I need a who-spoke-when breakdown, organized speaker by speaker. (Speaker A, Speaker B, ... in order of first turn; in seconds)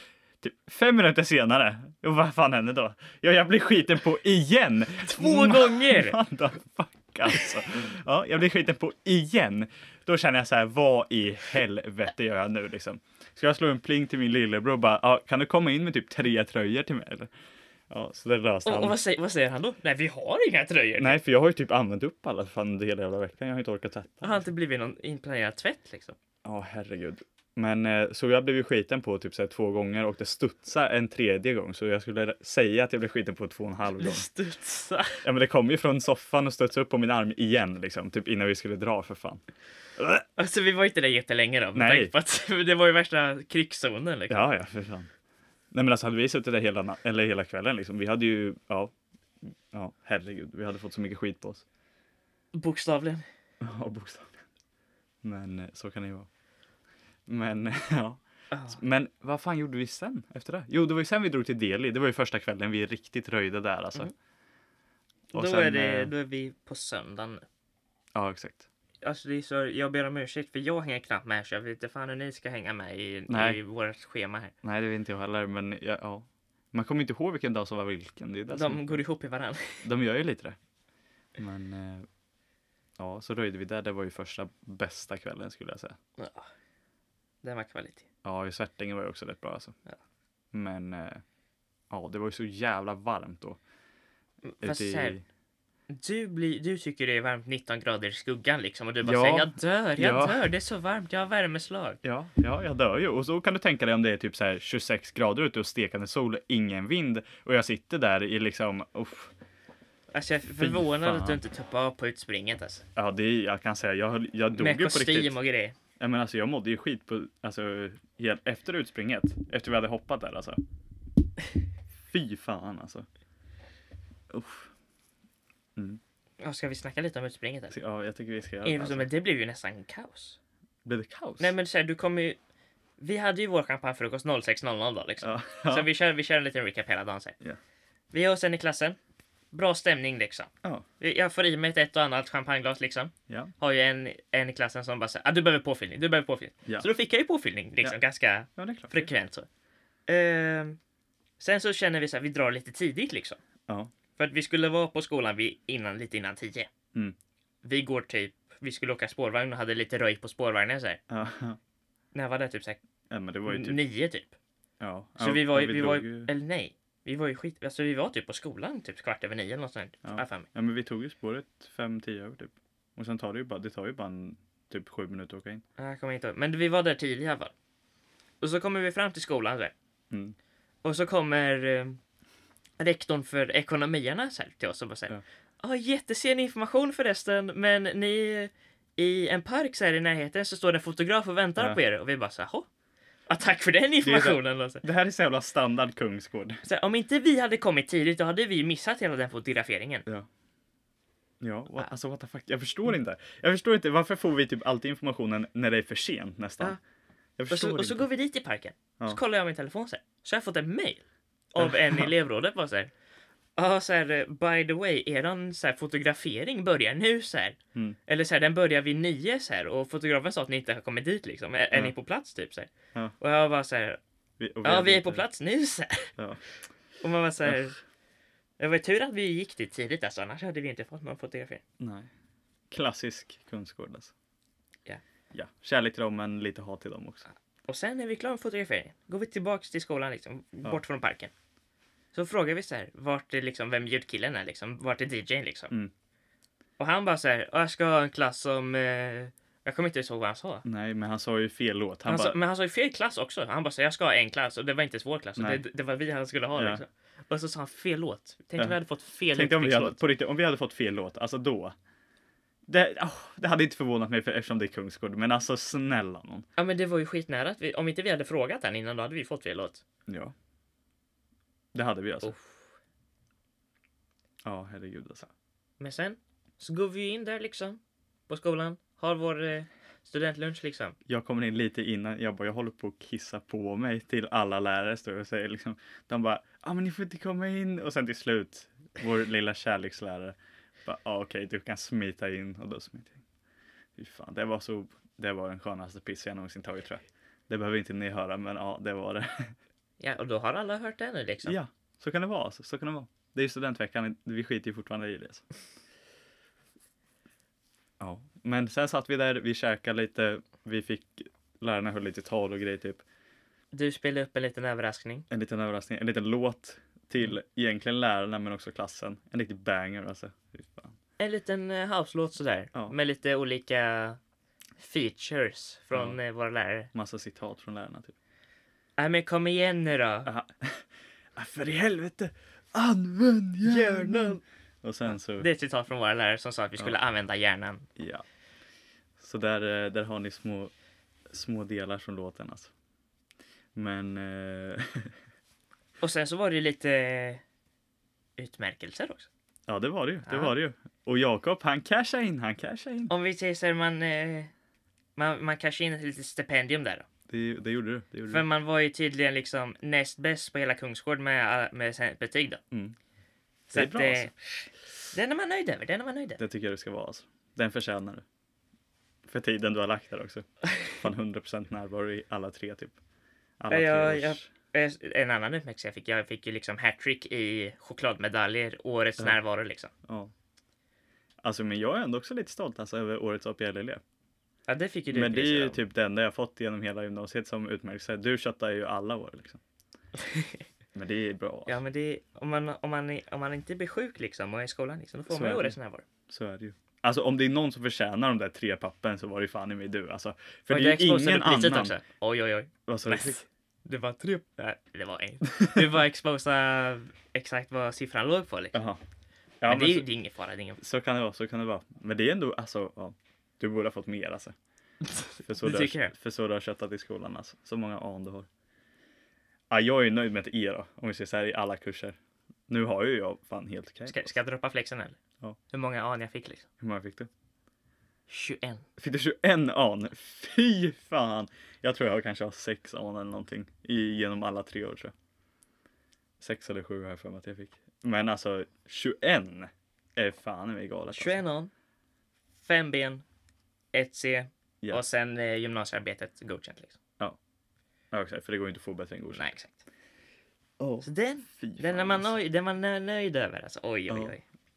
Speaker A: 0.4-17.3, 17.9-19.0, 21.0-24.5, 26.4-34.3, 35.2-39.4, 40.0-40.2, 41.8-42.1, 44.3-45.1, 45.7-48.9, 49.7-51.6, 53.6-54.4, 55.2-56.3, 57.3-64.1, 65.3-66.1, 68.2-68.7, 73.3-73.6, 74.6-79.0, 79.8-80.6, 81.4-82.1, 83.0-86.0, 88.2-89.8, 90.5-91.2, 91.9-93.6, 94.6-95.2, 99.0-100.5, 102.0-109.3, 110.6-111.4, 113.0-115.4, 116.0-120.6, 122.1-123.1, 124.3-124.7, 127.7-129.1, 130.8-131.5, 135.2-135.9, 148.6-149.1, 161.1-161.6, 163.1-163.8, 164.8-166.3, 170.0-175.6, 180.1-180.4, 194.0-196.6, 201.4-206.8, 207.4-208.1, 211.6-212.1, 224.4-225.2, 226.2-226.4, 231.8-232.1, 232.7-234.1, 235.3-237.3, 250.7-252.4, 255.4-255.6, 256.6-256.8, 259.3-261.8, 262.7-266.5, 270.1-270.3, 271.7-272.4, 274.4-275.3, 281.1-293.2, 294.0-299.6, 301.4-305.5, 308.0-313.0, 315.3-321.0, 325.9-326.2, 326.9-328.1, 330.2-335.5, 338.0-338.2, 339.2-340.7, 341.3-342.7, 343.8-345.1, 349.7-353.1, 357.3-358.4, 363.7-364.3, 366.4-368.2, 369.3-373.0, 373.6-374.5, 380.1-380.3, 381.4-384.0, 385.1-389.6, 390.9-391.8, 395.3-395.8, 396.3-402.0, 402.9-403.4, 408.7-409.0, 409.6-410.1, 410.8-414.5, 415.4-418.5, 419.7-422.2, 422.7-424.4, 426.8-427.3, 429.0-435.1, 436.4-441.4, 448.1-449.5, 450.8-452.4, 454.1-454.4
Speaker B: 5.0-6.2, 18.6-21.2, 24.2-26.2, 34.0-35.2, 40.4-44.5, 52.5-53.2, 58.5-58.8, 65.3-67.5, 69.0-74.5, 78.5-79.8, 86.2-86.5, 87.4-88.1, 94.4-95.2, 95.9-102.0, 110.1-112.8, 114.6-115.8, 126.4-127.8, 128.6-130.4, 131.4-132.4, 133.0-137.4, 138.1-139.0, 139.5-149.5, 150.1-150.8, 151.4-153.4, 154.2-156.7, 157.6-161.0, 162.1-162.8, 163.5-164.3, 165.2-170.5, 175.8-177.5, 178.4-179.7, 180.8-182.0, 182.8-192.7, 193.3-194.8, 196.6-200.1, 207.5-212.9, 213.6-224.0, 224.6-226.1, 227.0-227.8, 228.6-231.6, 237.7-241.3, 242.1-245.7, 246.8-250.7, 252.1-260.0, 266.6-269.8, 272.2-272.7, 275.8-281.0, 300.0-301.6, 313.7-315.3, 321.2-324.2, 324.8-326.9, 329.0-330.3, 333.6-334.4, 335.1-337.9, 346.0-347.4, 348.4-349.3, 350.3-350.5, 353.1-354.5, 355.2-357.1, 358.3-362.6, 363.7-366.4, 373.7-379.9, 384.7-385.8, 390.2-390.6, 391.7-396.1, 400.7-408.8, 409.7-410.8, 415.6-416.1, 424.1-425.2, 425.7-426.7, 428.3-428.9, 441.1-441.7, 442.6-443.2, 443.9-447.0, 449.4-449.8, 451.0-454.4